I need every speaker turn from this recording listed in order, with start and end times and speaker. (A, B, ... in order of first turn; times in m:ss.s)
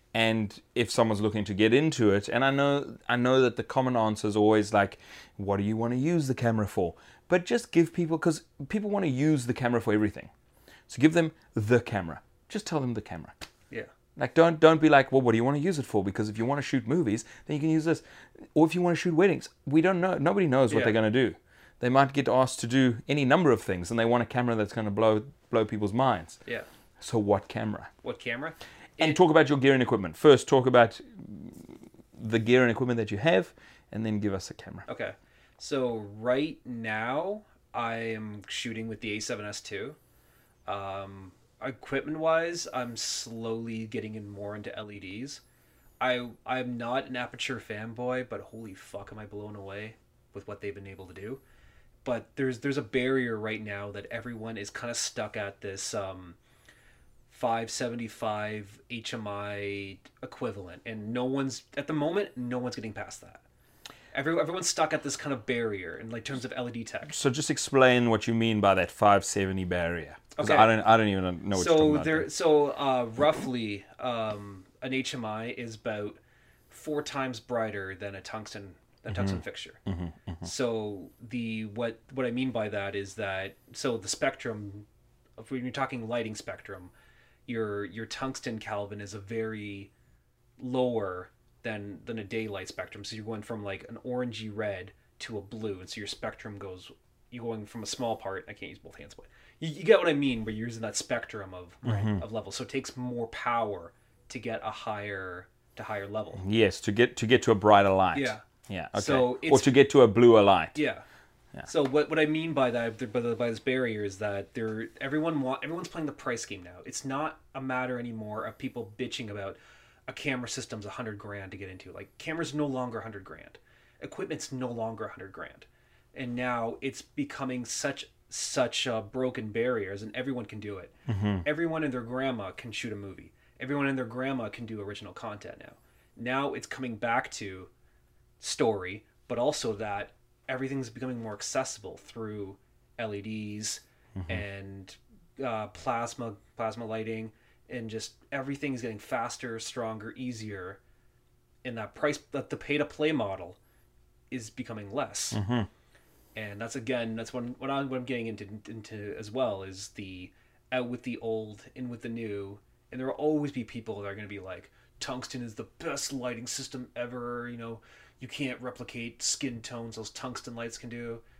0:00.1-0:10.3 A
0:10.9-0:13.3 A
0:14.2-0:18.0 A
0:18.5-0:26.4 A
0:20.7-0:21.0 B
0:27.0-0:27.9 A
0:28.0-0:29.2 B
0:29.0-0:34.9 A
0:34.9-0:40.0 B
0:40.7-0:45.4 B
0:46.0-0:51.4 B
0:52.0-0:56.4 B
0:57.3-1:03.4 B
1:04.1-1:07.1 B
1:07.1-1:12.3 A
1:10.4-1:10.8 B
1:11.5-1:16.2 B
1:16.7-1:19.8 B
1:19.1-1:20.5 A
1:20.4-1:24.9 B
1:25.4-1:26.9 B
1:27.5-1:29.9 B
1:30.6-1:46.4 B
1:41.8-1:42.2 A
1:46.4-1:50.8 A
1:48.1-1:49.7 B
1:50.8-1:51.0 B
1:51.6-2:10.9 B
2:11.1-2:11.5 A
2:11.4-2:17.7 B
2:18.4-2:30.8 B
2:24.2-2:24.4 A
2:31.6-2:33.6 B
2:34.3-2:35.4 B
2:35.3-2:35.7 A
2:36.4-2:51.2 B